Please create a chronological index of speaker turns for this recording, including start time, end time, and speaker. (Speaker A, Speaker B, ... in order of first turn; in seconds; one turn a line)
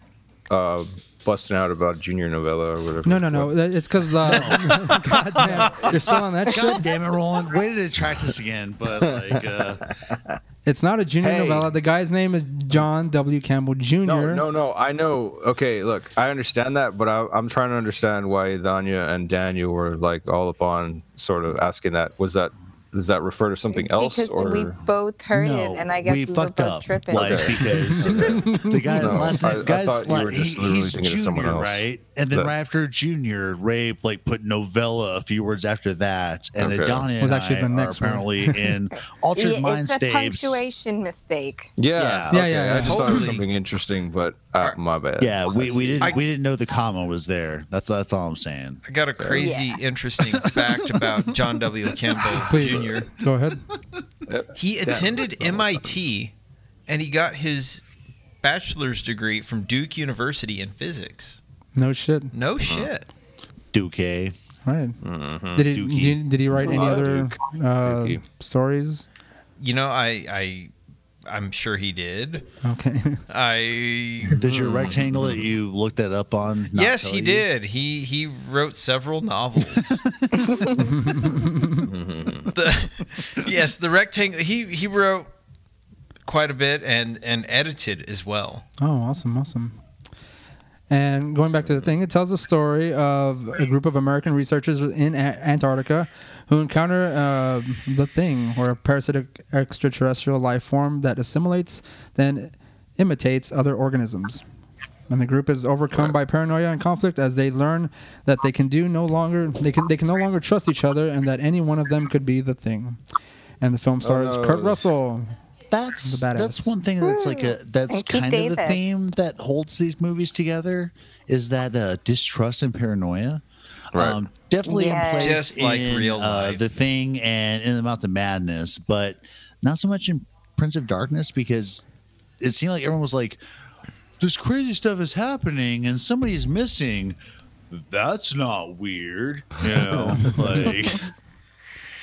Speaker A: 0.5-3.6
Speaker B: 3.0-6.8
Speaker C: 4.2-4.9
Speaker C: 6.5-9.8
Speaker A: 10.1-10.4
Speaker B: 10.6-14.4
Speaker A: 11.2-11.7
Speaker A: 14.0-24.8
Speaker D: 23.7-27.8
Speaker C: 25.3-40.6
Speaker A: 27.1-32.5
Speaker B: 28.3-29.0
Speaker A: 36.6-37.1
Speaker B: 37.2-38.7
Speaker D: 39.3-41.7
Speaker A: 41.8-46.1
Speaker C: 41.9-42.4
Speaker B: 42.3-43.3
Speaker E: 42.8-43.5
Speaker C: 45.2-48.8
Speaker E: 48.9-53.1
Speaker A: 49.2-49.5
Speaker D: 49.4-49.8
Speaker C: 50.3-51.1
Speaker B: 52.5-53.6
Speaker A: 54.3-56.0
Speaker E: 54.6-56.3
Speaker E: 56.9-57.8
Speaker E: 58.4-61.4
Speaker B: 61.8-62.3
Speaker E: 62.3-63.1
Speaker A: 62.6-62.9
Speaker C: 63.7-64.3
Speaker B: 64.6-65.0
Speaker A: 65.0-65.6
Speaker B: 65.5-69.0
Speaker C: 65.6-66.3
Speaker A: 66.5-68.2
Speaker E: 69.6-70.7
Speaker E: 71.3-72.5
Speaker B: 72.6-73.2
Speaker E: 73.3-74.4
Speaker C: 74.3-77.5
Speaker A: 74.4-75.4
Speaker E: 76.7-80.0
Speaker D: 80.3-80.8
Speaker B: 80.8-81.9
Speaker A: 81.8-82.5
Speaker E: 82.5-85.3
Speaker E: 86.2-88.6
Speaker B: 88.8-89.8
Speaker B: 90.9-104.4
Speaker A: 91.6-91.9
Speaker B: 105.1-113.0
Speaker B: 113.6-115.3
Speaker A: 114.0-114.8
Speaker C: 115.7-123.4
Speaker B: 116.0-116.7
Speaker D: 117.0-118.8
Speaker A: 123.9-124.2
Speaker C: 123.9-131.8
Speaker D: 124.6-125.3
Speaker E: 125.2-126.6
Speaker C: 132.4-133.4
Speaker C: 134.2-137.2
Speaker C: 137.7-141.1
Speaker A: 140.1-140.7